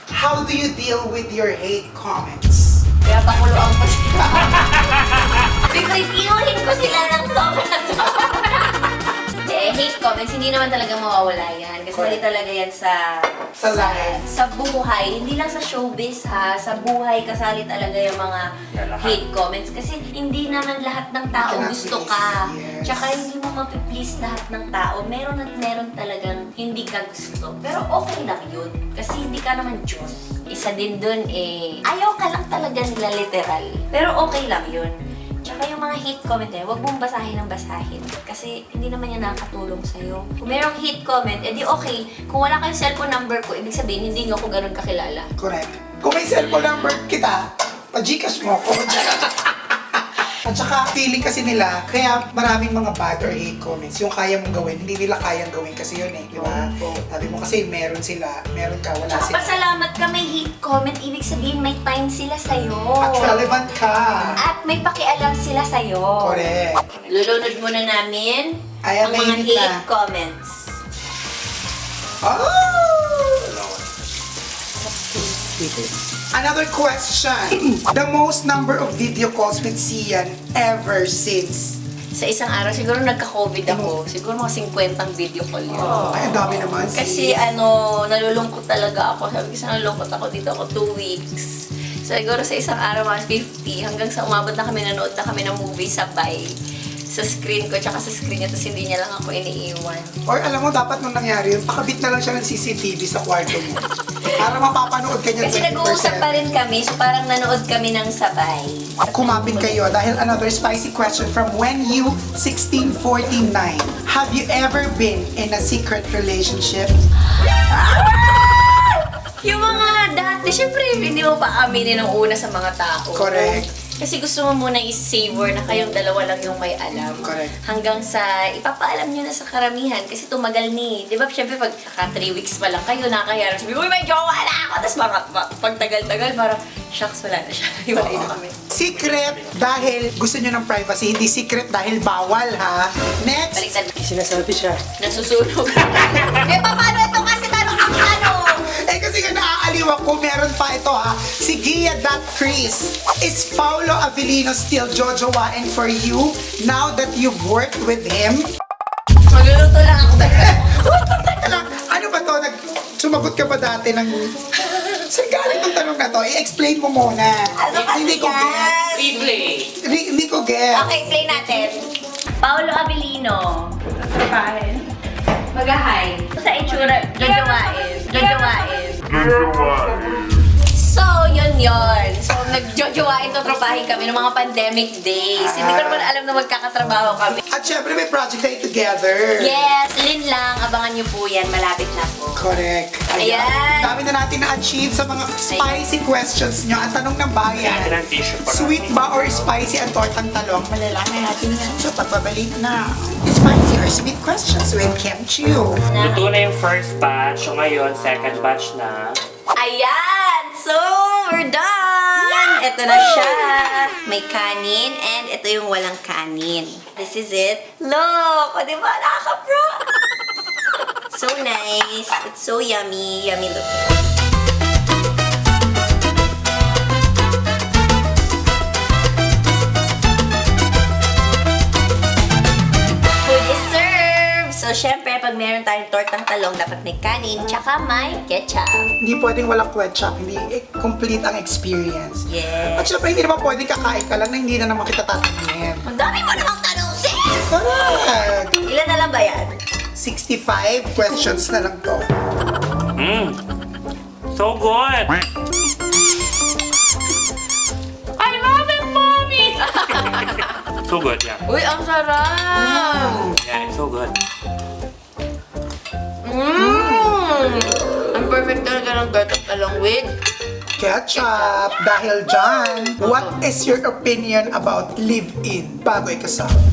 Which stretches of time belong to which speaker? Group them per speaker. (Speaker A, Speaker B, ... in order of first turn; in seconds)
Speaker A: 0.1-2.9, 11.9-12.2, 13.6-14.2, 21.3-23.2, 45.4-59.6, 63.0-64.4, 66.2-66.8, 68.8-69.8, 72.2-73.5, 75.1-81.8, 83.7-83.9, 86.0-87.4, 100.2-106.4, 109.1-117.0, 123.1-123.7, 127.2-127.5, 138.0-144.8, 148.6-158.5, 160.2-168.8, 169.8-171.1, 185.4-186.1, 187.5-189.6, 192.3-198.0, 198.5-205.8, 239.0-245.8, 247.4-248.6, 250.0-252.1, 262.5-263.4, 266.6-267.2, 270.8-276.6
Speaker B: 3.0-4.9, 5.6-45.3, 56.3-57.0, 59.1-63.4, 64.4-66.6, 67.1-70.8, 82.1-86.1, 86.9-96.5, 97.1-100.2, 105.4-109.8, 117.3-138.6, 143.5-144.0, 145.0-148.8, 159.3-161.4, 167.6-169.5, 170.7-171.8, 172.4-174.9, 175.5-179.5, 180.7-187.4, 189.4-192.4, 193.1-194.0, 195.4-195.7, 205.9-206.3, 209.6-220.0, 221.1-224.1, 233.2-238.9, 242.3-243.1, 245.8-247.5, 248.6-249.6, 258.2-260.6, 261.5-263.3, 266.2-270.1, 271.1-271.6, 273.0-273.4
Speaker C: 4.5-5.4, 18.7-19.2, 66.9-67.2, 73.5-73.8, 139.1-139.4, 168.9-169.7, 197.5-199.5, 205.9-209.2, 252.9-253.4, 254.3-255.2, 260.0-261.4, 263.4-264.1